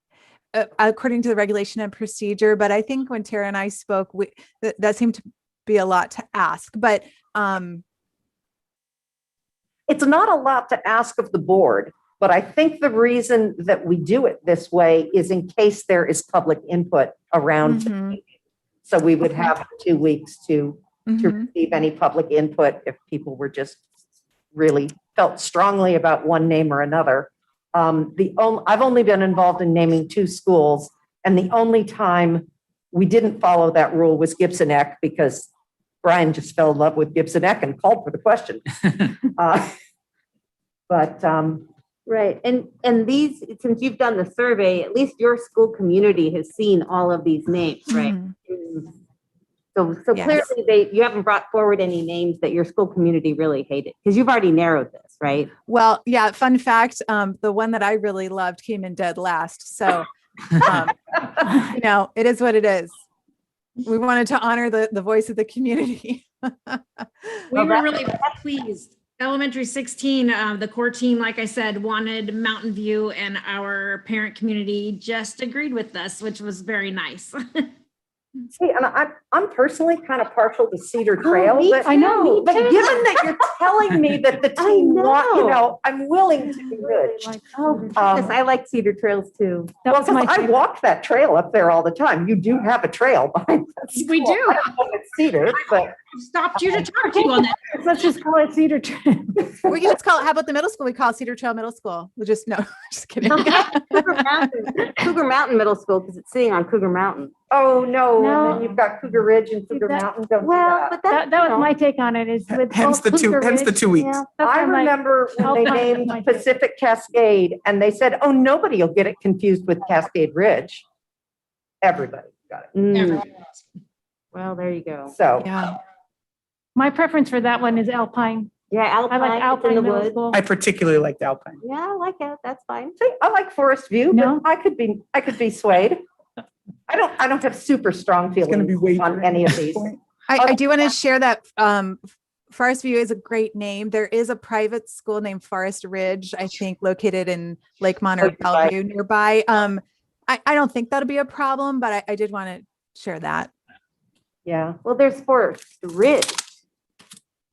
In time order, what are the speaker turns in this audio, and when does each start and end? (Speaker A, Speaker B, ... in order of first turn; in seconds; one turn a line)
Speaker A: 0.5-7.8
Speaker B: 9.9-18.2
Speaker A: 17.7-18.2
Speaker B: 18.9-23.8
Speaker A: 21.1-21.4
Speaker B: 24.5-35.5
Speaker B: 36.0-39.8
Speaker B: 40.9-41.7
Speaker C: 42.1-48.9
Speaker A: 48.0-48.3
Speaker C: 49.8-55.5
Speaker A: 50.1-50.5
Speaker A: 55.7-63.0
Speaker A: 63.8-67.5
Speaker D: 67.5-77.7
Speaker B: 78.5-87.3
Speaker C: 81.2-81.9
Speaker E: 81.8-82.9
Speaker C: 82.5-83.3
Speaker C: 84.6-85.6
Speaker E: 87.1-88.1
Speaker C: 87.6-89.8
Speaker B: 87.9-88.3
Speaker E: 89.8-90.6
Speaker B: 89.9-95.9
Speaker D: 93.9-94.6
Speaker D: 96.1-97.7
Speaker E: 97.8-99.4
Speaker A: 99.7-104.4
Speaker C: 103.3-107.3
Speaker B: 107.5-111.0
Speaker E: 108.2-108.8
Speaker E: 109.7-110.1
Speaker C: 110.4-111.7
Speaker E: 111.1-116.4
Speaker F: 112.5-114.3
Speaker C: 113.9-114.3
Speaker B: 114.4-120.8
Speaker B: 121.8-122.7
Speaker C: 122.8-123.2
Speaker D: 122.9-123.2
Speaker C: 124.3-125.2
Speaker B: 125.1-125.5
Speaker A: 125.4-125.8
Speaker E: 126.8-128.5
Speaker C: 128.7-130.2
Speaker E: 129.1-130.4
Speaker F: 130.3-131.6
Speaker C: 131.6-132.9
Speaker B: 133.0-136.0
Speaker E: 134.1-134.4
Speaker B: 136.9-140.6
Speaker F: 138.5-140.0
Speaker A: 140.3-142.0
Speaker A: 142.5-153.5
Speaker B: 148.2-148.8
Speaker B: 154.5-154.8
Speaker C: 154.8-156.5